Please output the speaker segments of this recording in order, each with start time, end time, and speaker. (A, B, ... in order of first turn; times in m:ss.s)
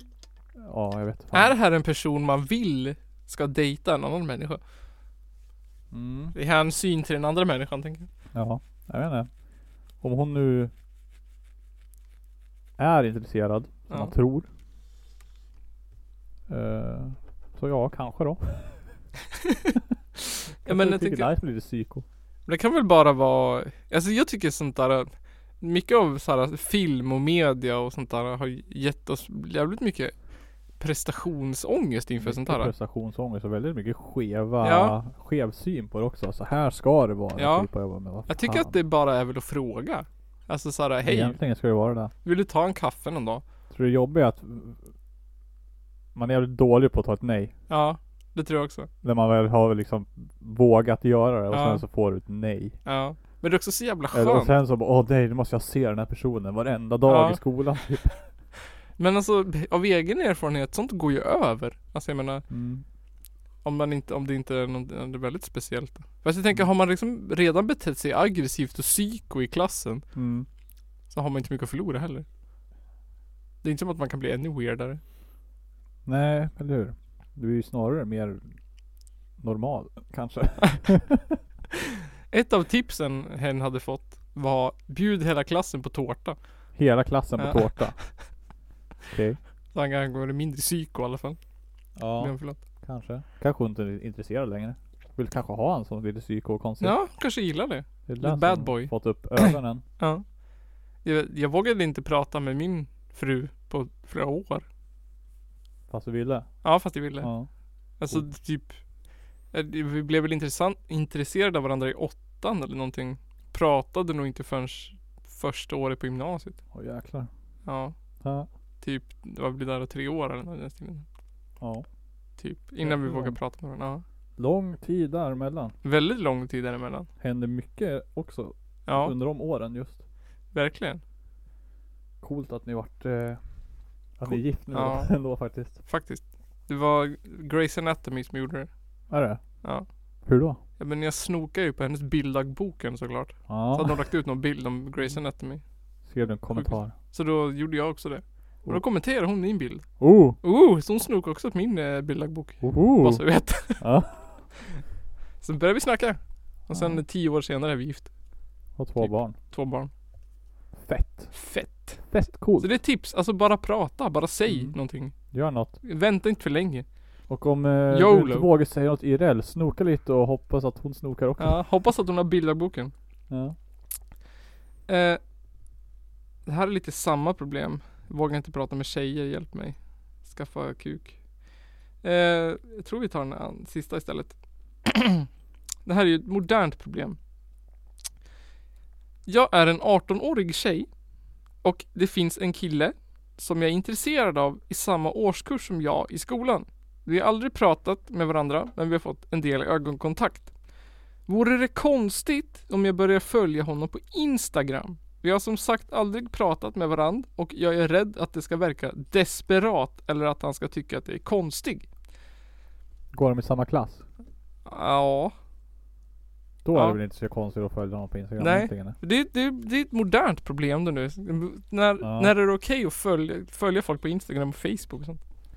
0:00.6-0:01.5 A
0:01.3-0:04.6 B
0:05.9-0:06.3 A
0:06.3-0:08.1 B
0:08.3-0:09.3 A
0:10.0-0:10.7 A
0:12.8-0:14.5 A
0:16.5-0:19.0 A
0:20.6-0:22.0 A
0:20.6-0:21.3 B
0:22.5-0:30.2 B
0:30.8-0:32.7 B
0:32.2-0:38.8 A
0:34.6-0:35.0 B
0:37.4-0:37.7 B
0:38.3-0:41.4 B
0:41.0-0:42.1 A
0:42.2-0:43.4 B
0:43.7-0:44.8 A
0:46.1-0:47.5 A
0:47.7-0:48.9 B
0:49.0-0:52.8 A
0:51.5-0:51.8 B
0:52.8-0:54.6 B
0:54.1-0:58.3 A
0:57.0-0:57.4 B
0:59.0-1:02.4 B
1:02.5-1:02.8 A
1:03.6-1:10.0 B
1:10.1-1:10.5 A
1:11.1-1:12.2 B
1:13.6-1:15.0 B
1:16.0-1:18.6 A
1:19.4-1:21.4 A
1:22.3-1:26.4 B
1:26.7-1:28.0 A
1:27.4-1:28.1 B
1:29.1-1:29.4 A
1:29.7-1:31.4 B
1:32.0-1:37.0 A
1:32.2-1:32.6 B
1:36.8-1:40.2 B
1:38.1-1:39.8 A
1:41.0-1:44.6 B
1:45.9-1:47.5 A
1:46.6-1:47.3 B
1:48.0-1:48.8 B
1:49.5-1:56.6 B
1:56.7-1:57.3 A
1:57.6-1:57.9 B
1:58.2-1:58.5 A
1:58.8-2:01.0 B
2:01.6-2:01.9 A
2:02.4-2:04.0 B
2:02.8-2:03.4 A
2:04.4-2:05.7 A
2:05.8-2:07.1 B
2:07.2-2:10.0 A
2:08.8-2:09.1 B
2:10.5-2:11.0 B
2:12.2-2:13.6 A
2:14.2-2:15.8 A
2:14.2-2:15.2 B
2:15.8-2:18.7 B
2:19.1-2:19.6 A
2:20.2-2:20.6 A
2:20.8-2:25.6 B
2:23.5-2:24.0 A
2:26.0-2:26.9 A
2:26.5-2:29.9 B
2:30.0-2:30.4 A
2:30.4-2:33.8 B
2:32.6-2:34.4 A
2:35.4-2:38.1 B
2:36.7-2:37.0 A
2:38.8-2:39.4 A
2:39.0-2:39.9 B
2:40.8-2:42.7 A
2:41.3-2:46.9 B
2:44.5-2:45.7 A
2:47.3-2:51.6 A
2:47.9-2:48.5 B
2:51.4-2:52.9 B
2:53.3-2:53.6 A
2:54.9-2:55.2 B
2:56.4-3:01.2 B
3:02.0-3:05.2 B
3:05.8-3:07.2 B
3:09.2-3:10.9 B
3:11.6-3:20.5 B
3:21.2-3:31.9 B
3:33.1-3:34.0 A
3:34.6-3:35.3 B
3:36.6-3:39.0 A
3:36.7-3:37.0 B
3:38.4-3:45.2 B
3:42.0-3:42.3 A